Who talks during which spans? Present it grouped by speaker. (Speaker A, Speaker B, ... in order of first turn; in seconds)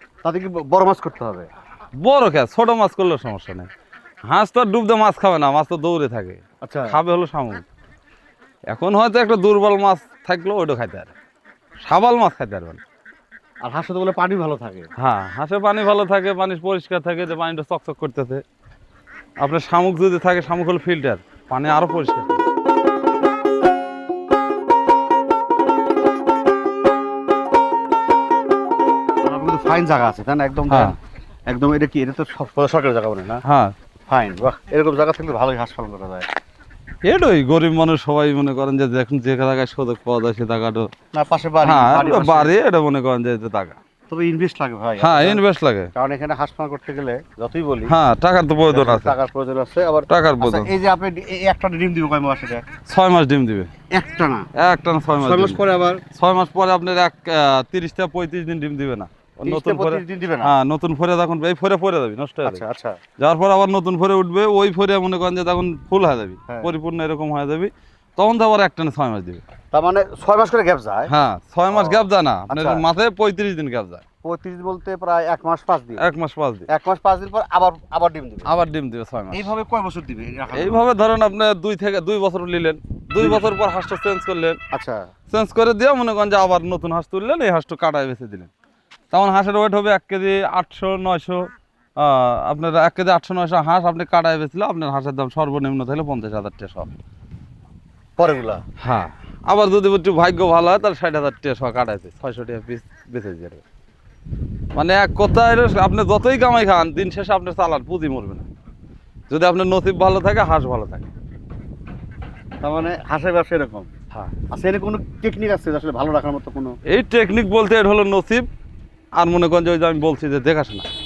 Speaker A: 0.2-1.5, 6.6-6.9, 13.6-14.9, 29.2-30.9, 31.5-33.4, 34.1-36.2, 41.1-42.5, 44.1-45.4, 45.9-47.9, 48.7-52.6, 53.9-54.5, 55.2-56.0, 59.5-60.5, 62.4-63.0, 69.7-71.1, 71.7-72.8, 74.2-76.0, 76.7-78.5, 79.3-80.8, 83.2-83.5, 84.7-85.1, 98.2-98.6, 112.6-113.9, 114.5-116.8
Speaker B: 2.0-3.7, 4.3-7.6, 8.7-11.1, 11.8-12.8, 15.0-18.4, 19.4-22.4, 30.7-30.9, 33.4-33.7, 37.0-40.9, 41.6-43.8, 45.0-45.9, 47.9-49.1, 50.1-50.7, 52.9-53.7, 54.5-55.6, 56.1-62.6, 63.2-69.4, 71.1-74.0, 76.0-76.7, 78.5-79.5, 80.5-84.6, 85.3-88.5, 89.1-96.9, 98.8-103.6, 104.7-108.5, 109.3-111.1, 116.9-118.5, 119.2-120.9